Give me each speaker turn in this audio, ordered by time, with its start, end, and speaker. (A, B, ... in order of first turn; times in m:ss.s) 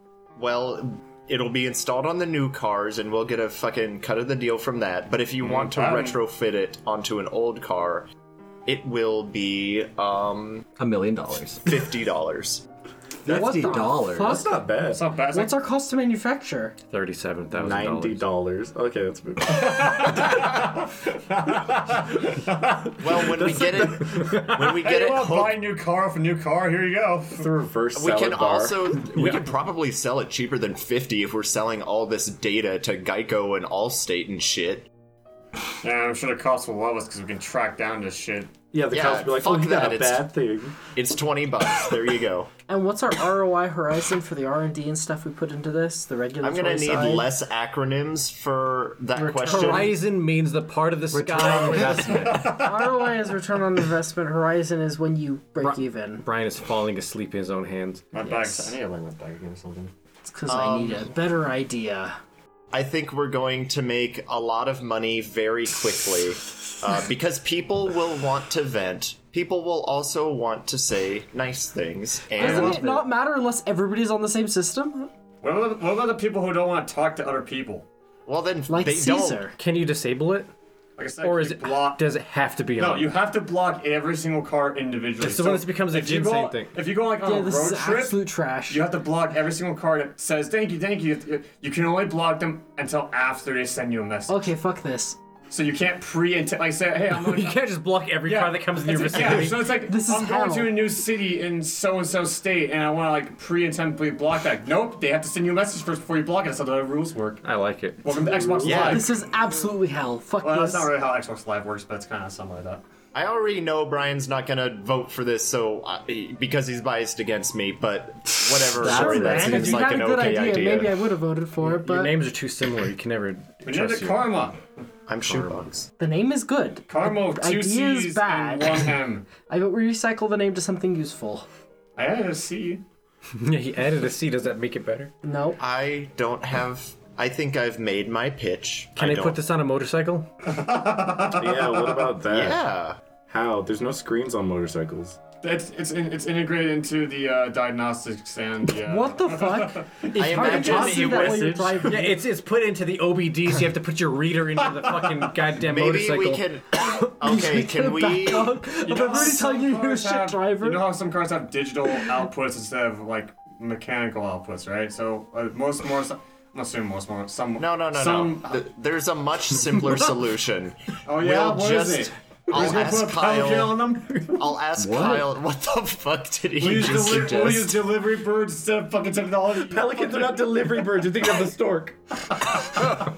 0:00.4-0:08.1 A
0:05.4-0:06.2 B
0:08.6-0:10.6 A
0:10.8-0:11.7 C
0:11.6-0:12.6 A
0:13.2-0:14.4 C
0:13.2-0:14.6 D
0:13.3-0:15.0 E
0:14.9-0:15.6 B
0:15.3-0:16.7 D
0:16.9-0:18.2 F
0:17.5-0:20.2 E
0:19.4-0:27.5 B
0:23.0-0:25.6 A
0:24.2-0:24.5 F
0:27.3-0:29.4 E
0:27.9-0:34.9 A
0:35.8-0:38.5 B
0:38.7-0:40.8 E
0:38.9-0:40.3 A
0:40.9-0:42.5 A
0:42.7-0:47.3 D
0:46.4-0:50.0 A
0:49.1-0:49.9 D
0:49.5-0:52.3 F
0:51.1-0:52.6 C
0:51.9-0:53.1 B
0:52.3-0:56.2 D
0:55.6-0:58.0 F
0:58.1-0:59.9 B
0:58.2-0:58.7 D
1:00.2-1:02.2 D
1:00.4-1:01.1 A
1:02.7-1:12.8 A
1:12.4-1:15.1 D
1:12.5-1:13.0 F
1:15.4-1:17.9 B
1:18.2-1:19.4 A
1:18.7-1:19.5 D
1:19.6-1:20.5 F
1:21.0-1:22.0 B
1:21.2-1:23.1 F
1:22.8-1:34.4 B
1:25.2-1:26.7 F
1:27.2-1:28.8 D
1:34.3-1:35.2 D
1:35.5-1:37.6 B
1:37.1-1:39.7 F
1:38.2-1:47.4 B
1:39.7-1:40.8 D
1:47.4-1:48.2 F
1:48.0-1:49.2 B
1:48.6-1:50.9 D
1:48.6-1:49.0 A
1:50.4-1:52.8 B
1:53.1-2:00.8 A
1:58.8-2:02.2 D
1:58.8-1:59.8 F
1:59.2-1:59.7 C
2:00.0-2:00.8 E
2:01.6-2:04.3 F
2:03.6-2:04.6 B
2:05.1-2:05.9 A
2:05.2-2:05.7 F
2:06.0-2:08.9 D
2:06.9-2:09.3 B
2:09.4-2:11.4 D
2:12.0-2:12.8 B
2:13.4-2:15.1 F
2:15.2-2:15.6 D
2:15.6-2:19.4 A
2:19.0-2:20.3 F
2:20.4-2:22.1 B
2:21.3-2:22.6 E
2:22.2-2:23.0 A
2:23.3-2:25.2 E
2:25.4-2:30.1 B
2:28.8-2:32.1 D
2:30.1-2:31.6 A
2:30.4-2:31.9 E
2:31.8-2:36.4 F
2:35.0-2:35.3 B
2:35.6-2:38.6 A
2:37.0-2:40.9 D
2:38.8-2:48.6 B
2:47.6-2:57.9 A
2:51.0-2:54.5 B
2:54.8-2:55.3 C
2:56.6-3:00.4 B
2:59.6-3:02.0 E